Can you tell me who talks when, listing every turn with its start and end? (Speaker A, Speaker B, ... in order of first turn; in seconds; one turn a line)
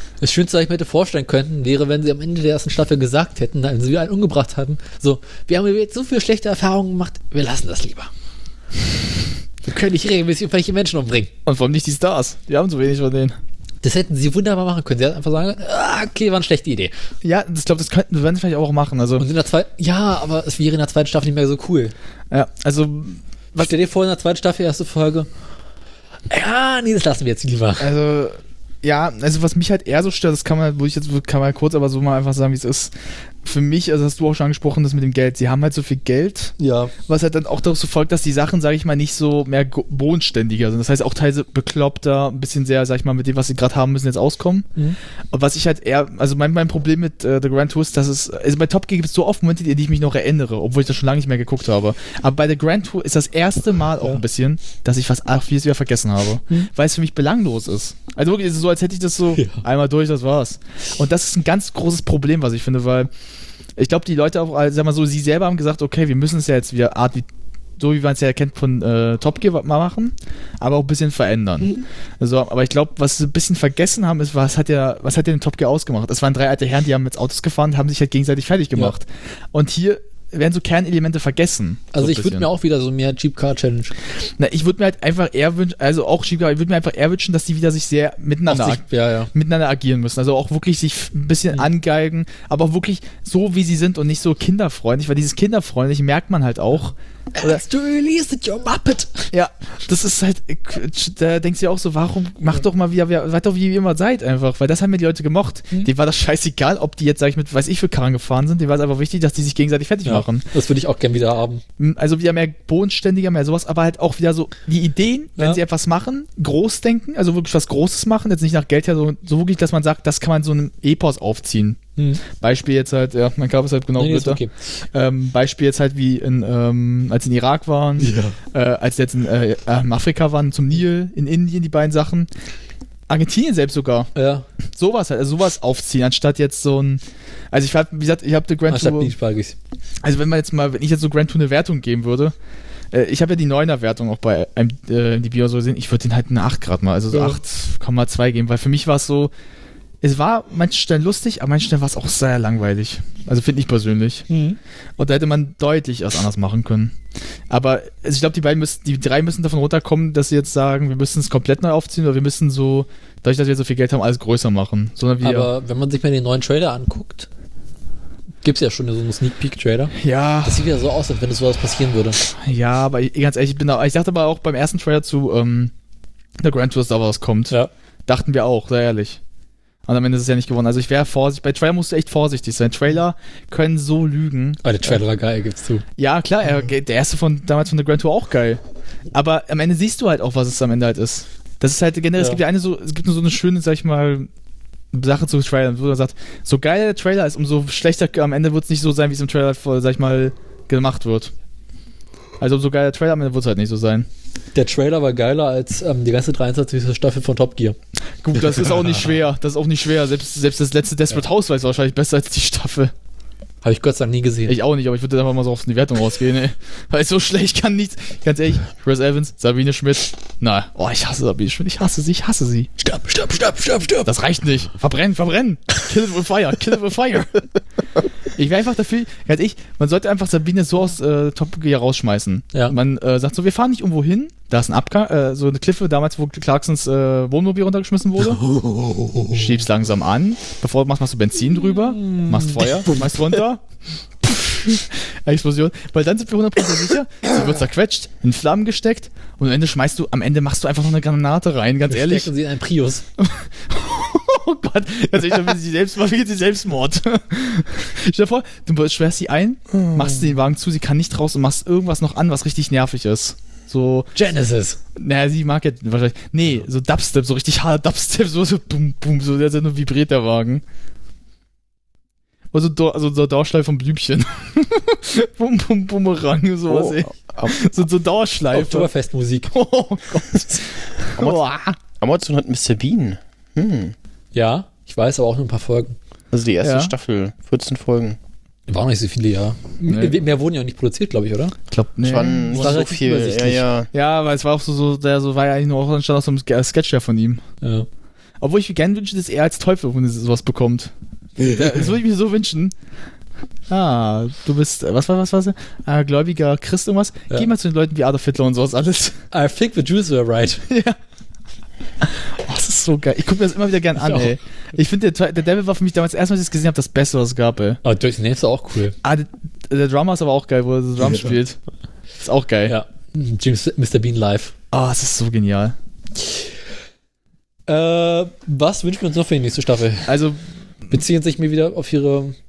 Speaker A: 0.2-8.1
Speaker A: 9.7-11.3
Speaker B: 11.5-13.4
Speaker A: 13.8-16.9
Speaker B: 17.2-19.3
Speaker A: 19.2-21.9
Speaker B: 22.3-23.7
Speaker A: 23.6-25.3
Speaker A: 26.3-27.9
Speaker B: 27.8-44.7
Speaker A: 36.6-36.9
Speaker B: 45.3-63.1
Speaker A: 59.4-59.6
Speaker B: 63.8-67.3
Speaker B: 67.8-82.5
Speaker A: 81.9-83.9
Speaker B: 84.4-97.6
Speaker A: 88.5-89.3
Speaker A: 97.3-99.3
Speaker B: 99.3-110.5
Speaker A: 110.0-111.6
Speaker B: 111.8-124.4
Speaker A: 122.0-122.2
Speaker A: 124.0-124.5
Speaker B: 124.9-132.3
Speaker A: 128.0-128.4
Speaker B: 133.1-134.1
Speaker A: 134.2-134.4
Speaker B: 134.8-139.1
Speaker A: 138.7-139.6
Speaker B: 140.0-142.3
Speaker B: 142.9-149.3
Speaker A: 147.1-147.4
Speaker B: 150.0-154.3
Speaker A: 154.3-154.6
Speaker B: 155.0-156.9
Speaker B: 157.5-165.5
Speaker A: 165.2-167.3
Speaker A: 168.4-172.2
Speaker B: 169.9-170.7
Speaker B: 172.3-175.7
Speaker B: 176.4-177.6
Speaker B: 178.1-179.2
Speaker B: 179.9-185.0
Speaker A: 184.6-185.8
Speaker B: 186.0-188.6
Speaker B: 189.1-194.3
Speaker B: 194.9-201.3
Speaker B: 202.4-204.1
Speaker A: 204.6-207.8
Speaker B: 208.2-212.9
Speaker A: 213.6-214.6
Speaker B: 214.5-222.7
Speaker A: 222.8-224.1
Speaker B: 224.1-227.5
Speaker B: 228.4-238.4
Speaker A: 238.3-239.5
Speaker B: 239.3-243.6
Speaker A: 241.9-243.0
Speaker B: 244.2-252.3
Speaker A: 251.9-253.1
Speaker B: 253.2-264.1
Speaker C: 259.7-260.1
Speaker A: 264.1-264.8
Speaker B: 265.0-270.6
Speaker B: 272.5-278.9
Speaker C: 276.7-277.6
Speaker A: 278.5-279.5
Speaker B: 279.5-281.8
Speaker C: 281.1-281.4
Speaker C: 282.0-283.9
Speaker A: 284.3-286.0
Speaker C: 286.3-288.2
Speaker B: 286.6-286.9
Speaker A: 288.7-291.6
Speaker B: 289.9-290.2
Speaker B: 291.7-292.9
Speaker C: 292.0-293.9
Speaker A: 292.5-293.7
Speaker B: 293.9-297.4
Speaker A: 297.6-297.9
Speaker B: 298.4-300.9
Speaker A: 301.4-301.9
Speaker B: 301.5-302.7
Speaker B: 303.7-309.2
Speaker A: 309.3-310.6
Speaker B: 310.7-311.0
Speaker B: 312.0-317.8
Speaker A: 314.0-314.4
Speaker A: 317.8-319.0
Speaker B: 319.0-321.6
Speaker B: 322.2-322.8
Speaker A: 322.7-324.5
Speaker B: 324.7-325.8
Speaker A: 327.7-330.2
Speaker B: 330.1-330.9
Speaker A: 330.9-332.4